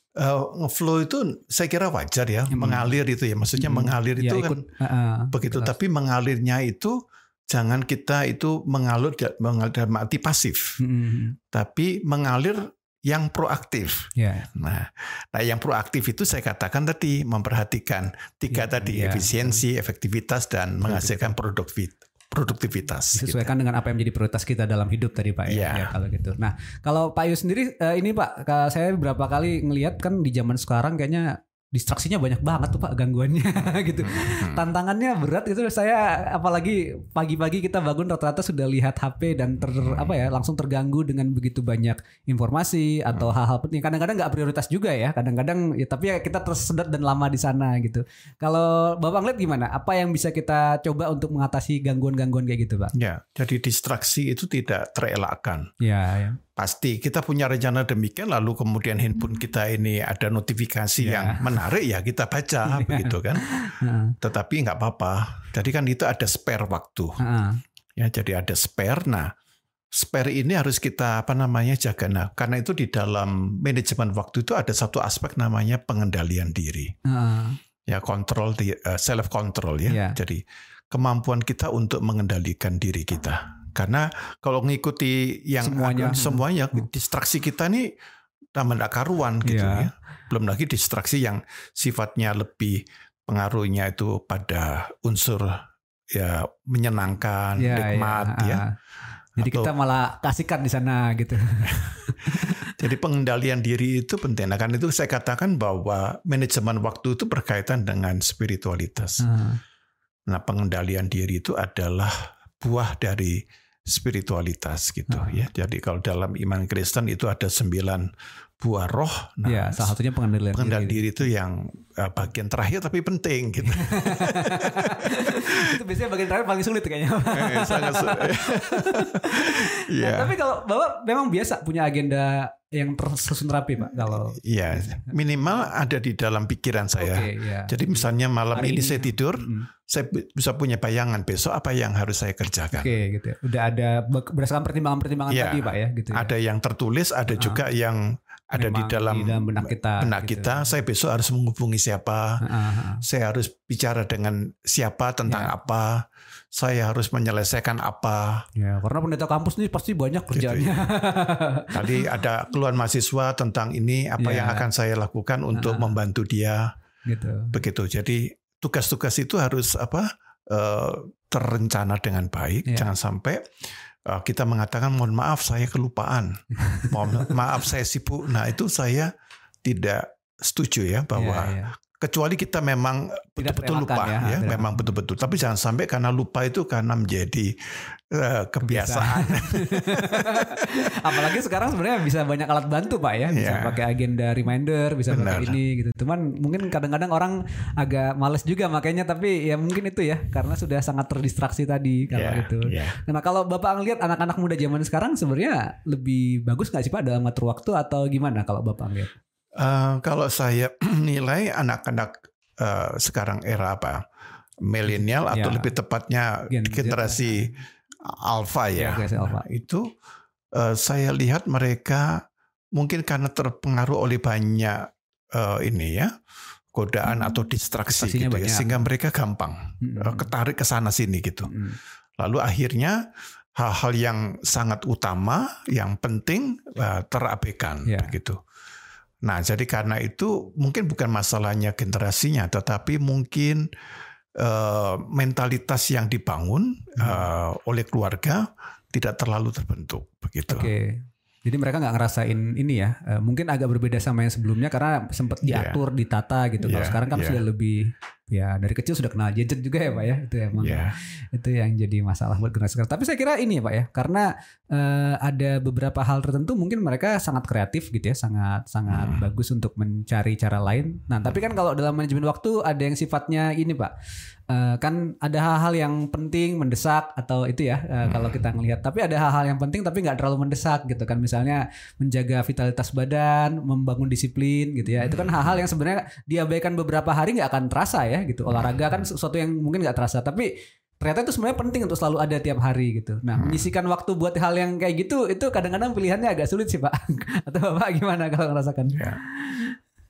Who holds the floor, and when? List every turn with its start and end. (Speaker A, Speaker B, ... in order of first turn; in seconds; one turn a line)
Speaker A: 0.2-4.7
Speaker B: 2.5-2.9
Speaker B: 3.6-5.7
Speaker A: 5.3-10.8
Speaker B: 10.8-11.4
Speaker A: 11.5-23.5
Speaker B: 14.2-14.5
Speaker B: 18.5-19.6
Speaker B: 20.8-21.4
Speaker B: 23.1-52.9
Speaker A: 25.5-25.9
Speaker A: 34.1-34.7
Speaker A: 53.0-55.7
Speaker B: 55.8-56.4
Speaker A: 56.6-63.5
Speaker B: 61.0-61.6
Speaker B: 62.7-64.2
Speaker A: 64.2-67.2
Speaker B: 67.2-67.6
Speaker A: 68.0-69.3
Speaker A: 69.9-76.9
Speaker B: 77.1-77.6
Speaker A: 77.9-87.9
Speaker B: 79.9-80.2
Speaker B: 85.6-86.9
Speaker A: 88.5-98.6
Speaker B: 89.4-89.9
Speaker B: 97.6-98.7
Speaker A: 99.4-99.7
Speaker B: 99.4-102.7
Speaker A: 102.3-109.2
Speaker B: 109.2-109.6
Speaker A: 110.3-118.1
Speaker B: 115.1-115.4
Speaker A: 118.6-119.9
Speaker B: 119.5-121.1
Speaker A: 120.5-125.8
Speaker B: 123.7-135.3
Speaker A: 127.3-130.3
Speaker A: 133.9-142.9
Speaker B: 137.0-139.7
Speaker B: 142.7-146.3
Speaker A: 145.3-152.4
Speaker B: 147.3-147.6
Speaker B: 148.6-150.8
Speaker B: 152.4-153.0
Speaker A: 153.0-156.0
Speaker B: 155.3-155.5
Speaker A: 156.5-158.4
Speaker B: 158.6-162.0
Speaker A: 160.3-160.8
Speaker A: 161.7-166.7
Speaker B: 164.2-164.7
Speaker B: 165.5-166.0
Speaker B: 167.1-167.6
Speaker A: 167.5-173.4
Speaker A: 174.1-179.1
Speaker B: 176.6-177.3
Speaker A: 179.6-191.3
Speaker B: 181.2-181.7
Speaker B: 183.4-184.9
Speaker B: 188.6-209.1
Speaker A: 193.3-193.8
Speaker A: 195.1-195.6
Speaker A: 202.1-203.0
Speaker A: 209.6-214.0
Speaker A: 214.6-217.5
Speaker B: 214.9-215.7
Speaker B: 216.5-217.6
Speaker A: 218.0-219.9
Speaker B: 218.8-219.4
Speaker A: 220.5-222.2
Speaker A: 222.8-226.1
Speaker A: 226.7-231.5
Speaker B: 227.9-228.8
Speaker B: 229.8-230.3
Speaker B: 231.5-231.8
Speaker A: 232.2-233.1
Speaker A: 233.6-238.4
Speaker B: 237.9-238.2
Speaker A: 239.2-243.7
Speaker A: 244.4-250.7
Speaker B: 247.0-247.3
Speaker B: 250.5-273.9
Speaker A: 255.4-255.8
Speaker A: 256.6-257.4
Speaker A: 260.6-261.0
Speaker A: 268.9-269.3
Speaker B: 274.5-290.5
Speaker A: 278.1-278.4
Speaker A: 284.9-285.6
Speaker A: 288.5-288.8
Speaker B: 291.0-299.8
Speaker A: 293.3-293.7